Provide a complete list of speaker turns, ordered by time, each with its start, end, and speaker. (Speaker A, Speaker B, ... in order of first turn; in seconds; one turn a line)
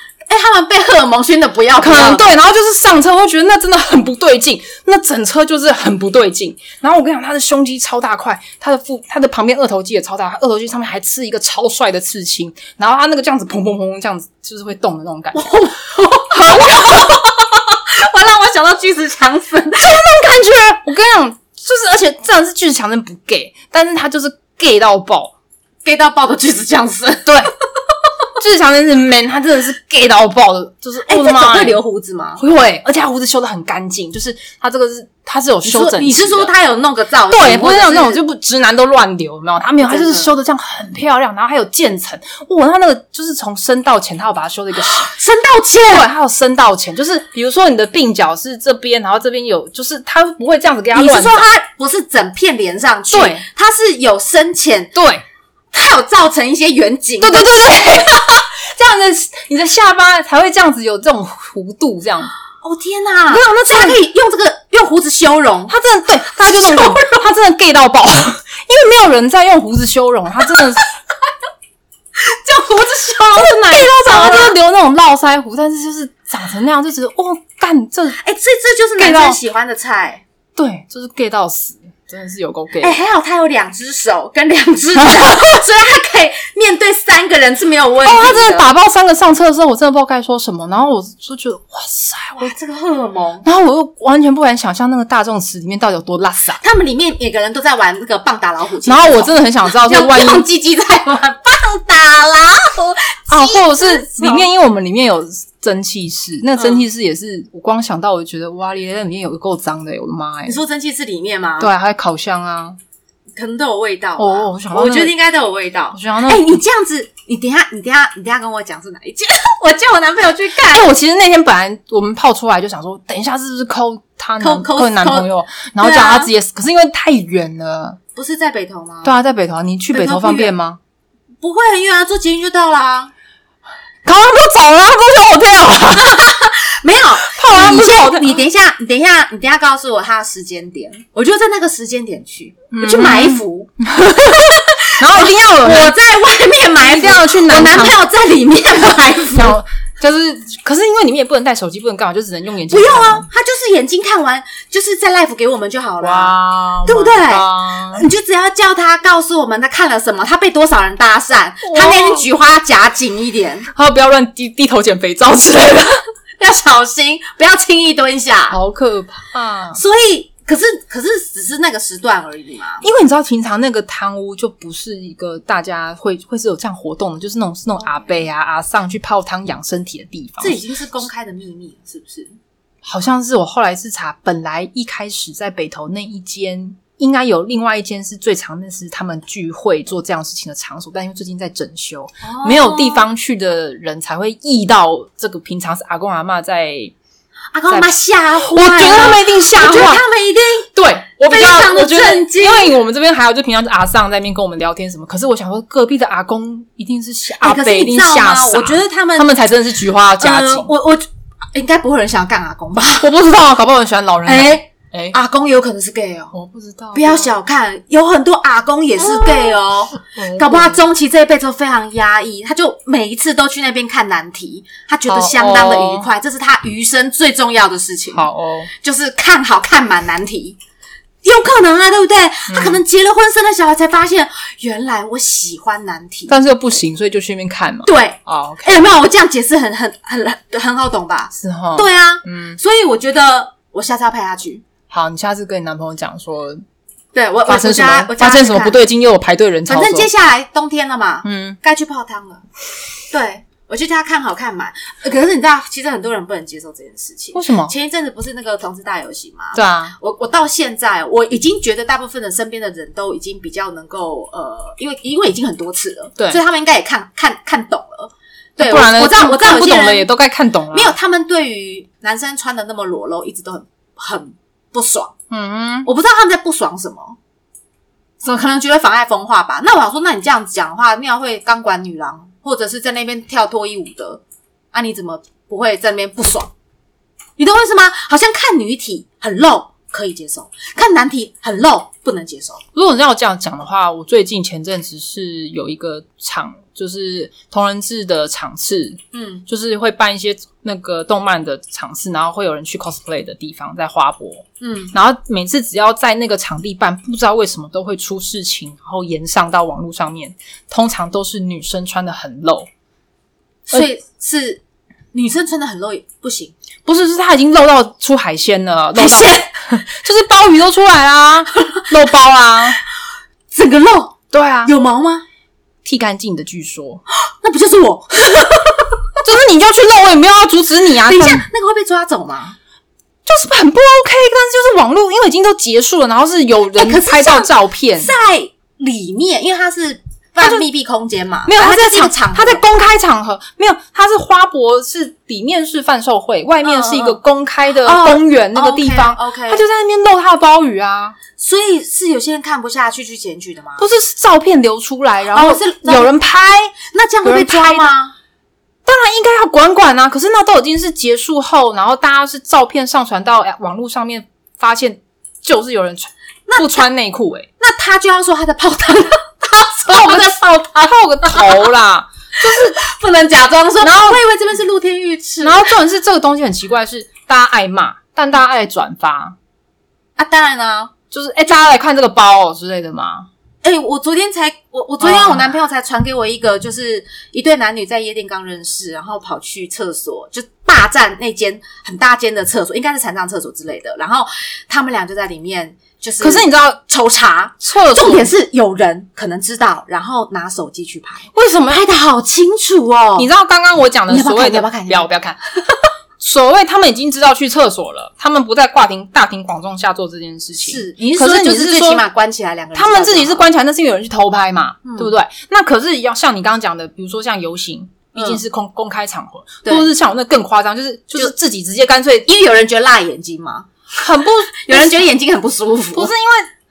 Speaker A: 0.3-2.3
Speaker B: 1.8-15.5
Speaker A: 15.3-20.0
Speaker B: 16.3-17.2
Speaker B: 19.8-25.3
Speaker A: 25.8-27.4
Speaker B: 27.2-27.5
Speaker B: 28.4-31.8
Speaker A: 31.1-32.4
Speaker B: 32.4-36.5
Speaker A: 35.6-38.2
Speaker B: 37.3-45.1
Speaker A: 39.8-40.3
Speaker A: 44.8-46.1
Speaker B: 45.9-51.5
Speaker A: 50.9-54.9
Speaker B: 53.1-53.5
Speaker B: 54.9-55.2
Speaker A: 55.7-58.4
Speaker B: 57.2-62.3
Speaker A: 62.6-65.7
Speaker B: 63.3-64.0
Speaker B: 65.7-70.8
Speaker A: 66.4-67.2
Speaker A: 72.2-74.6
Speaker B: 73.3-78.2
Speaker A: 78.2-80.2
Speaker B: 79.0-79.4
Speaker B: 80.6-83.0
Speaker A: 82.8-88.7
Speaker B: 85.0-85.4
Speaker B: 88.0-92.5
Speaker A: 92.4-93.5
Speaker B: 93.4-96.6
Speaker A: 96.6-104.5
Speaker B: 98.8-100.5
Speaker B: 103.3-110.6
Speaker A: 106.6-106.8
Speaker A: 110.5-111.7
Speaker B: 111.6-112.8
Speaker A: 113.4-120.9
Speaker B: 114.2-115.2
Speaker B: 115.9-116.6
Speaker B: 120.7-128.0
Speaker A: 124.4-125.3
Speaker A: 125.8-126.3
Speaker A: 128.2-129.2
Speaker B: 129.0-130.8
Speaker A: 129.9-130.6
Speaker A: 131.4-133.1
Speaker B: 134.1-136.2
Speaker A: 135.9-143.7
Speaker B: 137.2-138.4
Speaker B: 142.7-146.0
Speaker A: 144.3-149.6
Speaker B: 146.8-148.0
Speaker B: 149.3-153.3
Speaker A: 152.7-163.7
Speaker B: 156.0-158.1
Speaker B: 161.6-162.3
Speaker B: 163.7-166.0
Speaker A: 166.4-168.6
Speaker B: 168.5-169.8
Speaker A: 169.7-172.9
Speaker B: 172.8-180.6
Speaker A: 177.8-178.1
Speaker A: 180.4-182.4
Speaker B: 182.8-196.9
Speaker A: 192.2-193.1
Speaker A: 197.5-200.7
Speaker B: 198.4-200.0
Speaker B: 200.7-210.7
Speaker A: 201.3-202.8
Speaker A: 207.4-209.3
Speaker A: 210.2-213.1
Speaker B: 213.0-215.2
Speaker A: 214.2-216.3
Speaker B: 216.3-217.3
Speaker A: 216.9-230.6
Speaker B: 219.0-220.8
Speaker B: 225.1-226.1
Speaker B: 228.1-228.7
Speaker A: 231.2-236.4
Speaker B: 232.5-232.8
Speaker B: 236.3-238.9
Speaker A: 237.9-244.6
Speaker B: 241.4-242.6
Speaker B: 244.9-246.6
Speaker A: 247.1-248.8
Speaker B: 247.5-250.1
Speaker A: 249.7-252.4
Speaker B: 251.2-251.6
Speaker A: 253.1-270.1
Speaker B: 257.3-257.7
Speaker B: 259.6-260.0
Speaker B: 268.6-270.9
Speaker A: 270.7-275.1
Speaker B: 275.3-275.9
Speaker A: 275.9-277.2
Speaker A: 278.2-284.2
Speaker A: 284.7-286.5
Speaker A: 287.4-292.6
Speaker B: 292.8-312.7
Speaker A: 299.1-299.4
Speaker A: 304.6-304.9
Speaker A: 313.7-316.6
Speaker B: 316.9-322.8
Speaker A: 318.9-319.5
Speaker A: 323.5-325.2
Speaker B: 324.3-324.7
Speaker B: 325.9-327.0
Speaker A: 327.1-329.0
Speaker B: 329.2-331.5
Speaker A: 331.1-332.6
Speaker B: 333.2-338.1
Speaker A: 336.8-342.6
Speaker B: 341.5-351.2
Speaker A: 346.6-347.2
Speaker A: 347.8-349.6
Speaker A: 351.4-353.9
Speaker B: 353.8-357.9
Speaker A: 355.3-356.1
Speaker A: 356.9-358.1
Speaker B: 358.9-367.5
Speaker A: 367.6-371.7
Speaker B: 369.9-372.8
Speaker A: 372.4-375.7
Speaker B: 373.8-374.2
Speaker B: 375.4-379.4
Speaker A: 380.2-380.9
Speaker B: 381.1-383.3
Speaker A: 383.6-403.3
Speaker B: 385.0-385.5
Speaker B: 396.2-396.8
Speaker B: 397.6-398.3
Speaker B: 401.3-401.8
Speaker B: 403.2-405.4
Speaker A: 404.1-405.1
Speaker B: 406.2-412.0
Speaker A: 410.6-413.5
Speaker B: 412.8-422.3
Speaker A: 414.9-415.1
Speaker A: 418.1-418.4
Speaker A: 422.3-423.7
Speaker B: 423.9-425.1
Speaker A: 424.5-426.1
Speaker B: 425.9-426.5